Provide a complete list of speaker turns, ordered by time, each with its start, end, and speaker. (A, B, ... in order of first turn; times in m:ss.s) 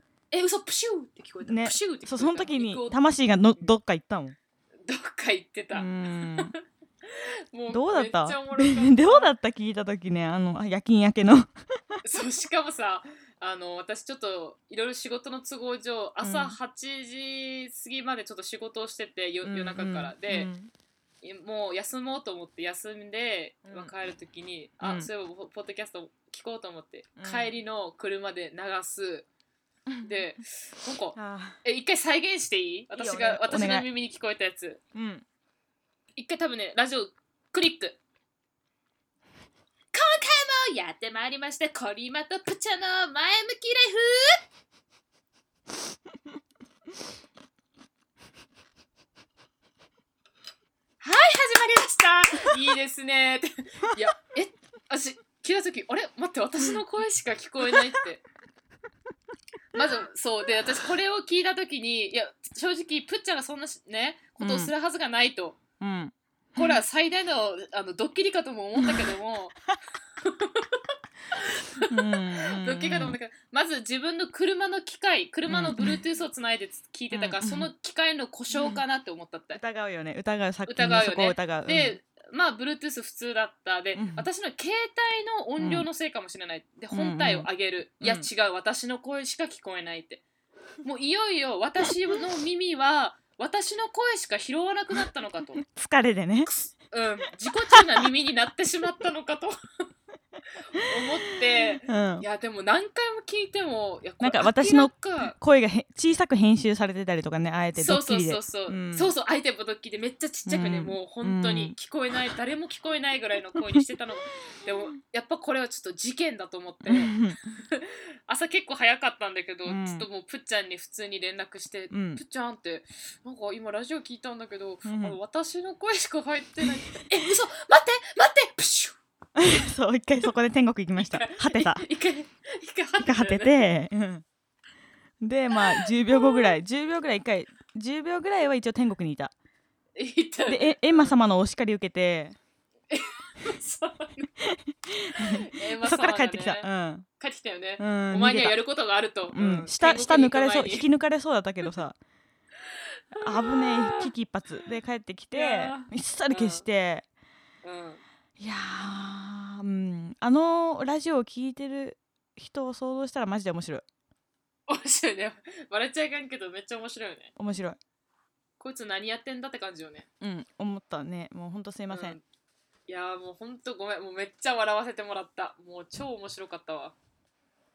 0:00.3-0:03.0 A
0:01.4-0:04.4 B
0:04.9-0:09.3 A
0:05.7-0:06.5 B
0:07.7-0:12.0 B
0:12.0-0:20.5 A
0:16.2-0:16.6 B
0:19.4-0:20.7 B
0:21.2-0:29.3 A
0:23.7-0:23.9 B
0:24.8-0:25.1 B
0:27.2-0:27.5 B
0:29.9-0:30.2 B
0:30.0-0:34.8 A
0:31.2-0:31.6 B
0:32.9-0:33.9 B
0:34.9-0:35.2 B
0:36.2-0:38.0 A
0:39.9-0:44.4 A
0:51.0-0:58.2 A
0:59.7-1:05.6 A
1:04.4-1:04.7 B
1:05.8-1:06.8 B
1:06.6-1:09.6 A
1:10.2-1:19.6 A
1:11.9-1:13.2 B
1:15.5-1:16.0 B
1:17.1-1:17.7 B
1:18.5-1:18.8 B
1:19.6-1:22.0 B
1:20.7-1:30.2 A
1:24.0-1:24.3 B
1:25.6-1:25.9 B
1:26.9-1:27.5 B
1:28.0-1:28.3 B
1:30.8-1:35.6 A
1:35.6-1:36.5 B
1:36.4-1:39.6 A
1:40.7-1:45.4 A
1:40.8-1:41.1 B
1:41.6-1:42.3 B
1:44.2-1:49.1 B
1:47.8-2:09.0 A
1:50.5-1:51.8 B
1:56.9-1:57.5 B
1:59.7-2:00.1 B
2:01.9-2:02.2 B
2:04.8-2:05.2 B
2:09.4-2:11.9 B
2:11.0-2:13.7 A
2:13.0-2:14.2 B
2:15.2-2:19.3 B
2:15.5-2:16.5 A
2:20.0-2:21.2 A
2:20.5-2:22.4 B
2:22.9-2:24.3 A
2:24.4-2:27.1 B
2:25.2-2:26.7 A
2:27.2-2:30.9 A
2:27.8-2:28.6 B
2:29.3-2:32.0 B
2:32.7-2:34.1 A
2:33.2-2:37.1 B
2:35.3-2:36.6 A
2:37.6-2:38.0 A
2:38.4-2:43.8 B
2:44.7-2:47.3 A
2:47.4-2:47.8 B
2:48.6-2:50.1 A
2:50.2-2:52.2 B
2:51.9-2:52.2 A
2:52.9-2:57.0 A